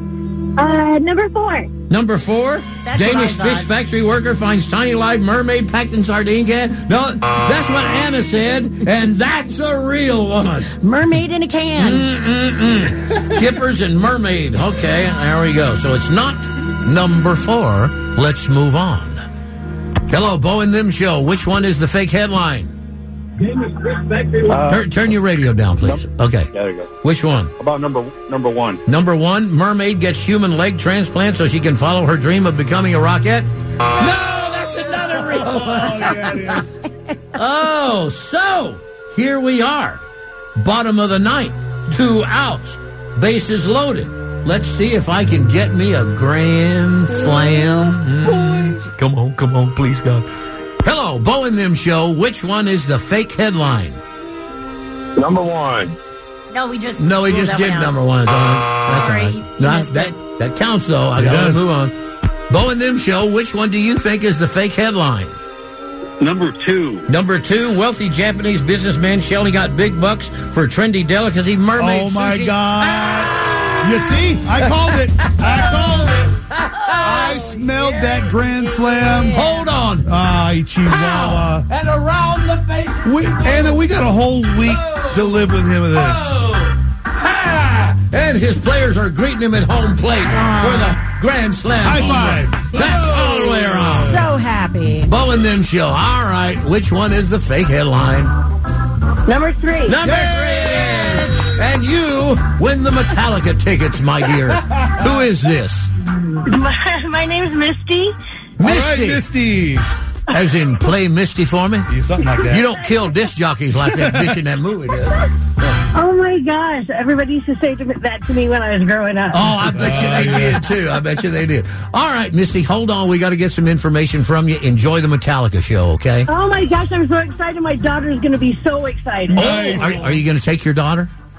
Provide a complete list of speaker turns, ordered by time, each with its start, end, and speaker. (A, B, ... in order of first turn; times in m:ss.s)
0:00.6-0:01.7 A
0:01.9-0:10.7 B
0:02.8-0:03.7 C
0:10.8-0:12.1 C
0:11.8-0:19.2 B
0:20.1-0:22.7 B
0:23.4-0:24.9 D
0:24.7-0:26.5 B
0:26.5-0:26.9 D
0:27.0-0:27.5 B
0:27.6-0:28.8 D
0:28.9-0:36.5 B
0:35.2-0:36.7 E
0:37.4-0:40.0 B
0:40.6-0:50.3 B
0:50.8-0:54.0 B
0:55.2-0:56.0 D
0:56.5-0:58.0 C
0:57.0-1:01.9 B
0:58.9-1:00.2 C
1:01.2-1:01.7 E
1:02.5-1:05.4 B
1:06.2-1:07.0 D
1:07.1-1:17.1 B
1:11.8-1:16.4 E
1:16.9-1:19.6 C
1:17.0-1:19.4 E
1:19.3-1:20.1 B
1:20.0-1:21.7 E
1:20.9-1:23.8 B
1:23.0-1:26.3 E
1:24.6-1:34.2 B
1:30.3-1:31.0 C
1:31.8-1:34.3 E
1:34.0-1:35.1 C
1:35.1-1:38.3 B
1:39.3-1:40.0 A
1:39.9-1:45.9 B
1:40.0-1:40.8 E
1:40.7-1:41.4 C
1:46.4-1:48.2 A
1:48.6-1:49.2 B
1:48.6-1:49.9 E
1:50.3-1:51.9 B
1:51.9-1:52.7 E
1:52.5-1:55.2 B
1:53.8-1:54.4 E
1:56.0-1:59.5 A
1:59.3-2:06.3 B
1:59.6-2:00.7 E
2:06.3-2:10.0 A
2:09.3-2:10.1 E
2:09.3-2:11.1 B